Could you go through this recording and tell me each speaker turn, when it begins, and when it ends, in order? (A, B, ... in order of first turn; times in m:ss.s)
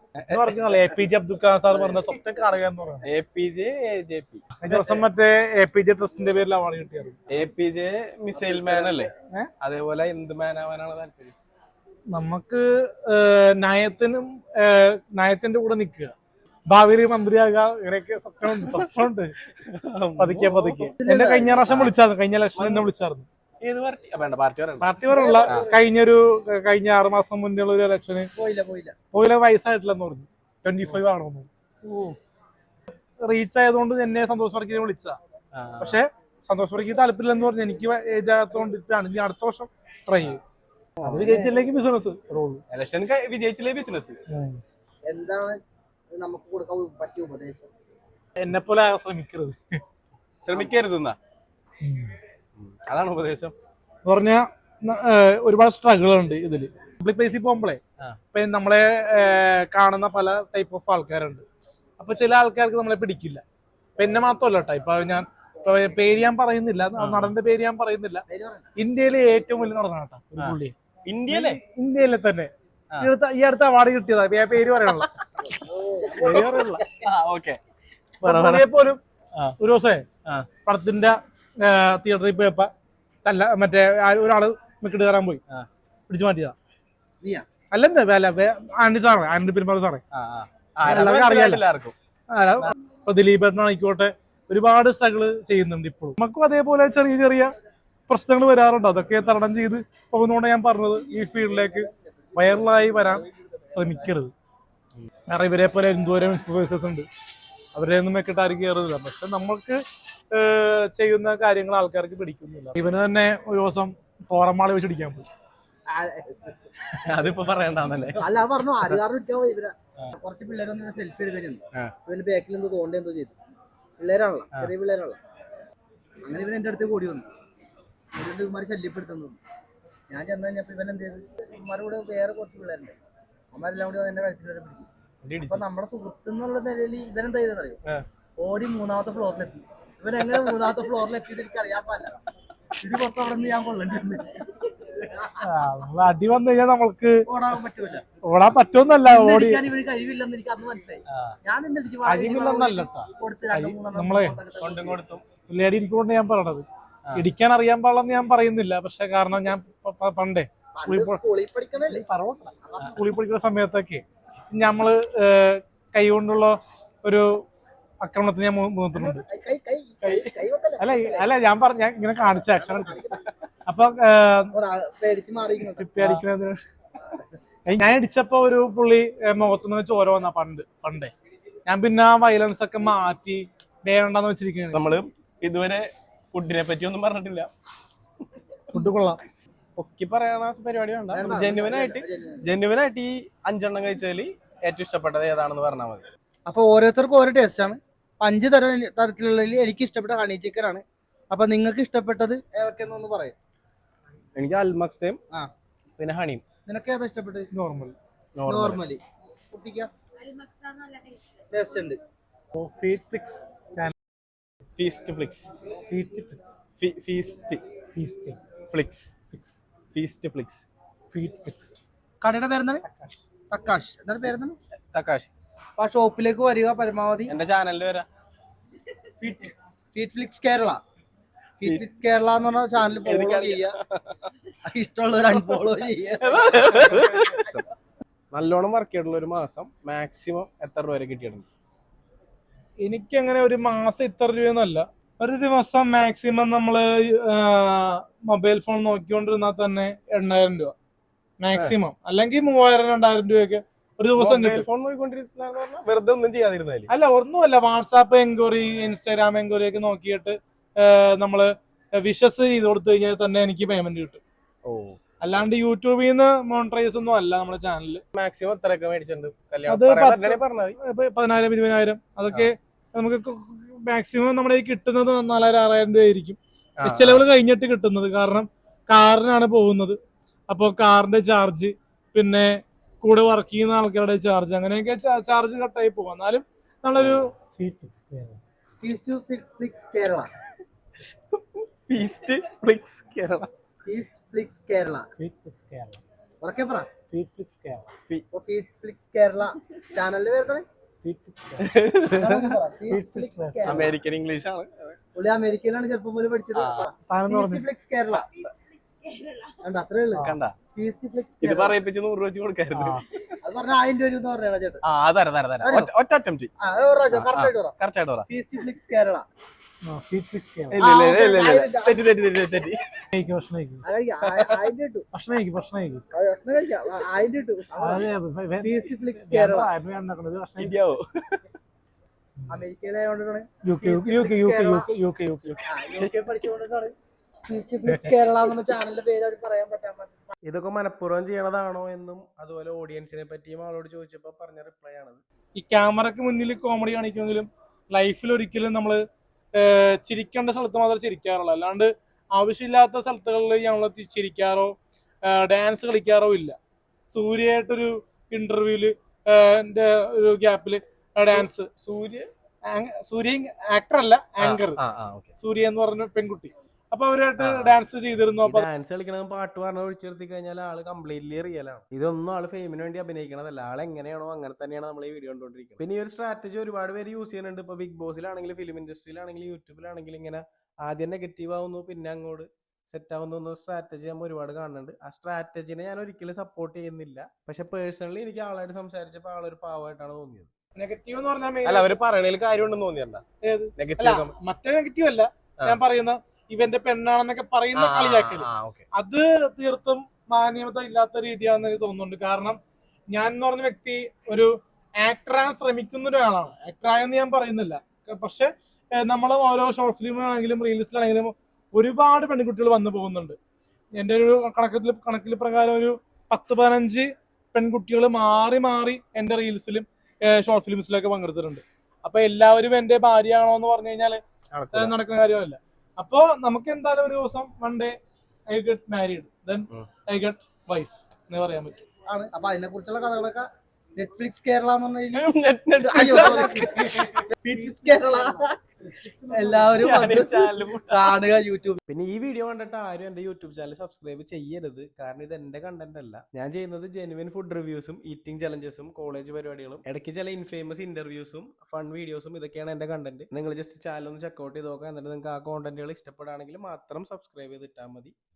0:00.2-0:00.7 A
0:00.3-0:03.1 B
0:03.0-0:05.0 A
0:04.6-0:07.2 B
0:07.3-0:09.1 A
0:08.3-0:09.1 C
0:09.6-0:11.3 A
0:12.1-0:16.1 B
0:16.7-0:19.3 B
0:18.5-0:18.9 A
0:19.5-0:20.9 A
0:20.2-0:23.2 B
0:21.0-0:21.6 C
0:21.7-0:21.9 A
0:22.6-0:22.9 A
0:23.6-0:24.9 A
0:24.8-0:28.3 B
0:25.1-0:25.8 C
0:28.3-0:28.9 C
0:29.1-0:31.5 B
0:31.8-0:32.2 A
0:33.2-0:35.2 B
0:35.5-0:36.0 A
0:35.8-0:40.4 B
0:41.0-0:41.3 A
0:41.0-0:41.6 C
0:41.0-0:42.6 B
0:42.7-0:44.2 A
0:44.3-0:44.6 B
0:45.1-0:45.6 C
0:46.1-0:47.7 C
0:48.4-0:49.8 B
0:50.4-0:51.2 A
0:51.8-0:52.1 B
0:52.6-0:53.6 A
0:54.0-0:57.8 B
0:58.3-1:01.4 B
1:02.0-1:03.4 B
1:04.0-1:08.2 B
1:07.0-1:07.3 A
1:08.3-1:08.7 C
1:08.8-1:10.7 B
1:10.4-1:11.6 A
1:11.3-1:12.5 B
1:13.0-1:15.1 B
1:15.4-1:16.7 C
1:16.2-1:16.8 B
1:16.2-1:17.6 A
1:18.2-1:18.7 A
1:18.2-1:19.0 B
1:19.6-1:20.0 B
1:20.6-1:22.7 B
1:23.2-1:25.4 B
1:26.1-1:26.5 B
1:27.2-1:27.5 C
1:27.7-1:30.0 B
1:30.1-1:31.9 A
1:30.8-1:31.6 B
1:32.3-1:37.5 B
1:38.1-1:44.3 B
1:45.3-1:47.1 B
1:47.7-1:49.8 B
1:50.3-1:55.3 B
1:55.9-1:56.6 C
1:57.0-1:58.3 A
1:58.2-2:03.3 C
2:04.0-2:05.2 C
2:06.2-2:07.3 C
2:08.1-2:09.4 C
2:10.1-2:12.9 C
2:13.5-2:14.9 C
2:15.2-2:15.6 A
2:15.5-2:17.8 C
2:18.4-2:22.2 C
2:22.8-2:25.4 C
2:25.4-2:27.2 B
2:27.2-2:28.0 C
2:28.2-2:29.6 B
2:29.0-2:35.0 C
2:31.1-2:31.4 A
2:32.0-2:34.4 B
2:34.6-2:35.2 A
2:35.5-2:36.6 B
2:37.2-2:41.2 B
2:40.8-2:42.0 C
2:41.8-2:47.4 B
2:42.6-2:43.0 C
2:48.0-2:49.2 B
2:49.0-2:51.3 C
2:50.0-2:53.0 B
2:52.3-2:53.2 C
2:53.7-2:54.5 B
2:54.5-2:55.8 C
2:55.8-2:56.6 B
2:56.0-2:56.2 A
2:57.0-2:57.4 C
2:57.7-3:01.1 B
3:01.7-3:04.8 B
3:04.7-3:07.5 A
3:08.7-3:09.2 B
3:09.8-3:16.0 A
3:11.1-3:12.4 C
3:16.5-3:23.3 C
3:24.4-3:25.2 A
3:26.0-3:26.4 A
3:26.6-3:27.5 C
3:27.5-3:28.0 B
3:28.4-3:28.8 A
3:28.4-3:29.9 C
3:31.5-3:32.0 C
3:32.5-3:33.9 B
3:34.8-3:35.5 A
3:35.9-3:36.6 B
3:36.8-3:37.6 A
3:38.0-3:38.4 B
3:38.7-3:39.2 A
3:39.3-3:39.6 B
3:39.9-3:40.6 A
3:41.1-3:41.8 B
3:42.2-3:42.8 C
3:42.9-3:43.1 B
3:43.5-3:44.6 C
3:44.9-3:45.3 A
3:45.8-3:47.3 C
3:47.3-3:48.1 A
3:49.2-3:49.6 A
3:49.9-3:50.8 C
3:51.6-3:53.8 C
3:51.6-3:51.9 A
3:53.0-3:54.2 A
3:54.6-3:57.6 C
3:56.2-3:57.6 A
3:58.3-4:01.5 A
4:02.8-4:10.7 B
4:11.4-4:14.6 B
4:14.2-4:16.9 A
4:16.9-4:24.2 B
4:24.6-4:25.0 A
4:25.2-4:28.0 B
4:28.1-4:30.8 A
4:29.7-4:40.0 B
4:36.8-4:37.2 A
4:40.5-4:48.4 B
4:47.0-4:47.3 A
4:48.8-4:50.3 C
4:51.0-4:53.5 A
4:53.8-4:55.1 C
4:55.2-4:56.0 B
4:56.4-4:56.9 C
4:57.1-4:57.9 B
4:58.3-5:00.6 C
5:01.0-5:01.7 B
5:01.6-5:02.5 A
5:02.1-5:04.0 C
5:02.9-5:03.9 B
5:03.6-5:05.0 A
5:05.1-5:08.3 C
5:06.5-5:06.9 A
5:07.1-5:07.6 B
5:08.1-5:08.4 A
5:09.5-5:11.8 C
5:10.2-5:10.6 A
5:11.4-5:13.3 A
5:12.7-5:13.0 B
5:13.4-5:14.8 C
5:14.8-5:16.5 A
5:15.6-5:15.9 C
5:16.6-5:17.7 C
5:17.1-5:18.3 A
5:18.3-5:19.2 C
5:19.8-5:20.8 B
5:20.7-5:22.8 A
5:20.8-5:22.0 C
5:23.1-5:23.8 B
5:23.8-5:25.0 C
5:24.2-5:24.6 A
5:25.1-5:26.0 B
5:26.1-5:28.1 C
5:27.8-5:30.7 B
5:28.6-5:29.7 C
5:30.6-5:31.5 A
5:32.5-5:34.9 C
5:33.6-5:35.5 B
5:35.5-5:36.3 A
5:35.7-5:36.9 C
5:37.4-5:40.3 C
5:40.4-5:45.2 A
5:45.6-5:49.0 B
5:49.6-5:54.7 B
5:55.2-5:56.6 B
5:57.1-6:01.7 B
6:01.2-6:02.3 A
6:02.6-6:04.8 B
6:04.4-6:05.3 A
6:05.4-6:08.7 B
6:07.4-6:07.8 A
6:08.4-6:30.5 A
6:30.8-6:31.9 B
6:31.6-6:33.2 A
6:33.4-6:42.6 B
6:33.8-6:34.3 A
6:37.7-6:38.9 A
6:43.1-6:53.4 B
6:53.9-7:04.2 B
7:04.5-7:04.9 A
7:04.7-7:07.9 B
7:08.5-7:11.8 B
7:12.1-7:15.3 C
7:15.1-7:17.2 A
7:15.8-7:18.6 C
7:16.0-7:20.2 B
7:19.3-7:21.8 C
7:19.8-7:21.1 A
7:21.9-7:38.1 A